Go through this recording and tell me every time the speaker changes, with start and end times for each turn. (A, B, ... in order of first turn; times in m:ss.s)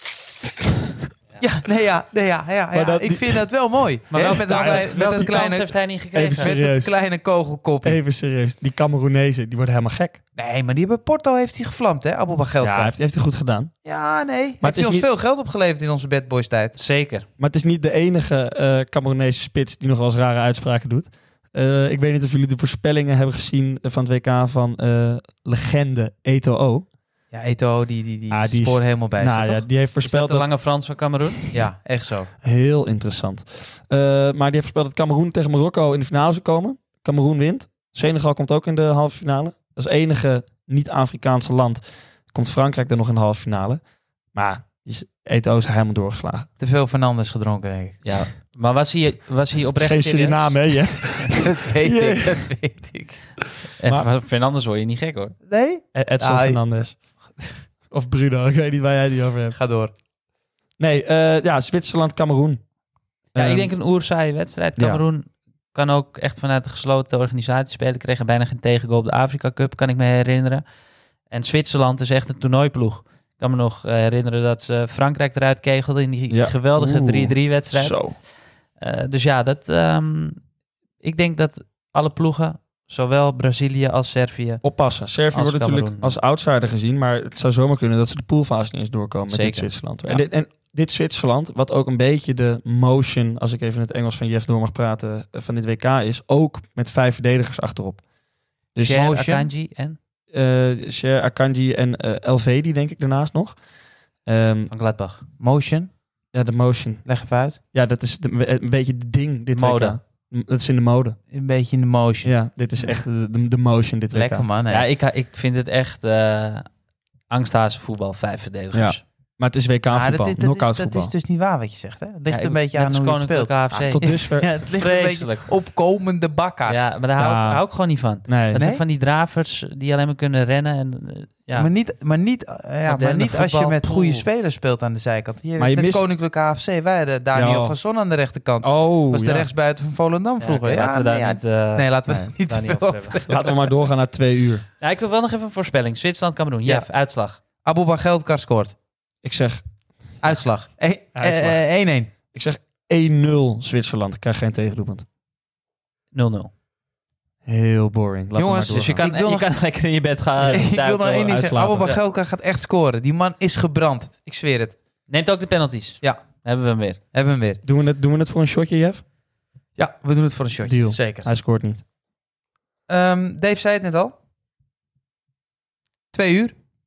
0:01.4-0:05.8 A
0:02.7-0:03.4 B
0:04.1-0:06.6 C
0:04.1-0:07.0 B
0:06.3-0:08.0 A
0:07.8-0:10.2 B
0:10.4-0:12.9 A
0:12.6-0:13.7 B
0:13.8-0:16.8 A
0:14.6-0:15.0 B
0:16.8-0:17.2 C
0:17.4-0:26.9 B
0:27.3-0:29.6 A
0:28.3-0:30.5 B
0:30.0-0:31.4 C
0:31.5-0:32.3 A
0:32.4-0:43.8 B
0:44.3-0:46.5 B
0:46.6-0:48.2 A
0:48.0-0:50.6 C
0:49.8-0:52.4 B
0:51.4-0:53.2 A
0:53.8-0:54.1 B
0:53.8-0:55.3 C
0:55.5-0:56.6 A
0:55.9-0:57.0 B
0:57.9-0:59.6 B
0:59.5-0:59.9 A
1:00.8-1:02.6 B
1:03.3-1:03.7 B
1:03.3-1:10.6 C
1:04.8-1:05.0 B
1:11.3-1:18.1 C
1:16.3-1:18.2 B
1:18.8-1:20.4 C
1:21.0-1:24.6 C
1:24.6-1:38.0 B
1:25.3-1:26.2 C
1:29.3-1:30.2 C
1:38.7-1:39.0 B
1:38.8-1:40.0 C
1:38.8-1:39.5 A
1:40.3-1:43.6 B
1:44.2-1:44.7 B
1:44.7-1:45.2 C
1:45.4-1:45.9 A
1:46.3-1:47.2 B
1:47.0-1:47.6 A
1:47.7-1:51.2 B
1:49.5-1:50.0 C
1:51.3-1:52.3 A
1:52.2-1:54.4 B
1:54.1-1:54.8 A
1:54.7-1:56.7 C
1:57.3-1:59.0 C
1:58.7-2:01.1 B
1:59.9-2:06.9 A
2:02.3-2:04.1 C
2:03.7-2:04.6 B
2:04.6-2:05.5 C
2:06.6-2:11.7 C
2:07.2-2:07.6 B
2:08.3-2:08.6 B
2:08.5-2:08.8 A
2:11.5-2:23.5 A
2:12.8-2:14.2 C
2:15.6-2:16.0 B
2:17.3-2:17.8 B
2:18.6-2:19.5 B
2:20.4-2:23.2 C
2:23.2-2:24.6 B
2:24.8-2:27.4 C
2:27.6-2:28.7 A
2:29.2-2:29.6 B
2:30.2-2:32.1 A
2:31.2-2:31.6 B
2:32.3-2:35.0 B
2:36.1-2:36.5 C
2:37.4-2:39.0 B
2:38.4-2:39.5 A
2:38.7-2:42.0 C
2:40.4-2:40.7 B
2:40.5-2:44.8 A
2:41.2-2:41.9 B
2:45.1-2:47.0 C
2:47.1-2:47.6 A
2:47.6-2:49.0 B
2:49.8-2:51.3 A
2:50.6-2:51.8 B
2:52.9-2:54.1 A
2:56.1-2:56.5 A